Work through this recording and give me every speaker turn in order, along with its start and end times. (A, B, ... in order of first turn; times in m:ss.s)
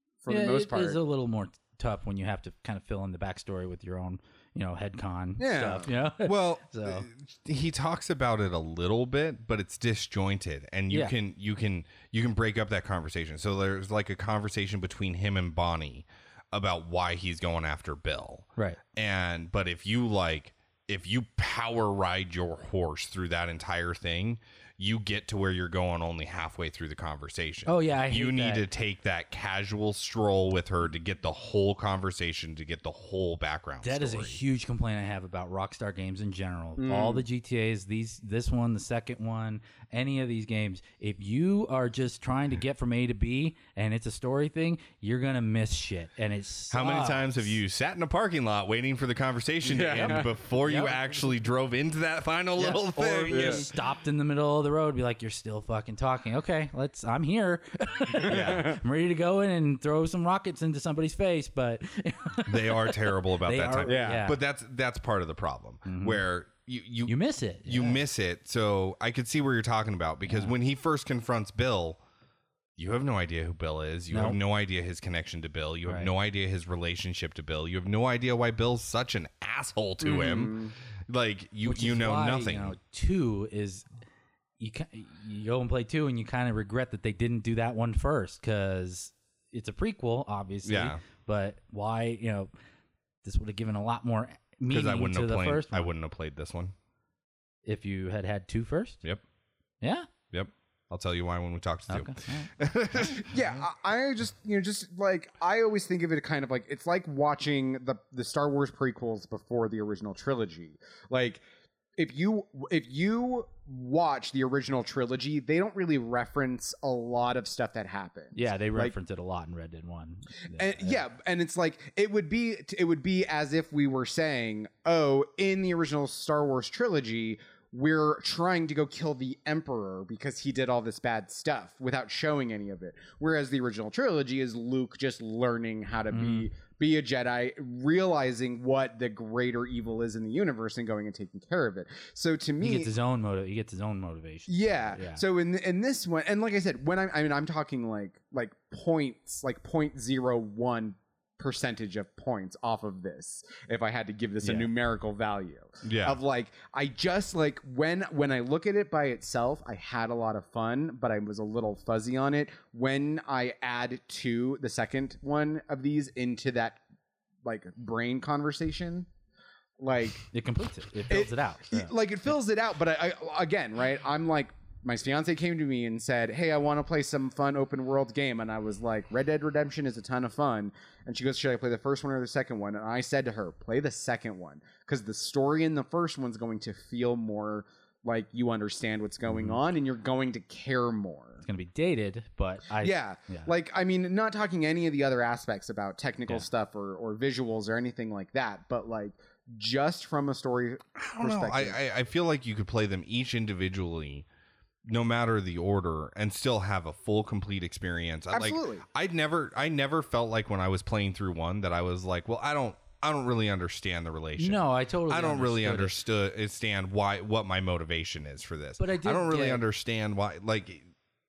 0:00.2-0:01.0 A
0:00.3-0:07.1 B
0:05.4-0:05.9 A
0:06.2-0:34.4 C
0:27.7-0:28.6 B
0:33.8-0:47.6 B
0:36.8-0:37.2 A
0:46.7-0:53.7 C
0:49.6-0:50.3 A
0:50.0-0:51.0 B
0:52.6-1:04.4 B
0:53.3-0:53.6 A
0:58.2-0:58.8 A
0:58.3-0:58.7 C
1:02.5-1:12.0 C
1:03.9-1:04.2 A
1:05.9-1:06.2 B
1:07.1-1:08.0 B
1:10.3-1:10.5 B
1:12.8-1:22.8 C
1:14.1-1:14.4 B
1:15.9-1:16.1 B
1:20.0-1:20.7 A
1:21.6-1:23.9 B
1:24.6-1:32.5 B
1:30.6-1:31.0 C
1:33.2-1:35.9 B
1:34.7-1:36.7 C
1:37.6-1:39.0 B
1:39.8-1:40.1 B
1:40.3-1:43.3 C
1:41.9-1:42.5 B
1:43.2-1:51.4 A
1:52.0-1:58.9 A
1:58.4-2:01.0 B
2:00.5-2:22.9 A
2:16.1-2:16.5 B
2:22.6-2:25.2 B
2:24.5-2:46.8 A
2:34.4-2:34.7 B
2:35.8-2:36.2 C
2:47.4-2:49.1 A
2:49.8-2:50.3 A
2:50.3-2:51.9 B
2:51.1-3:11.4 A
3:09.3-3:09.6 B
3:11.4-3:13.5 B
3:12.8-3:21.8 A
3:21.0-3:24.3 C
3:24.9-3:40.9 C
3:28.3-3:28.8 A
3:34.4-3:36.0 B
3:38.8-3:39.6 B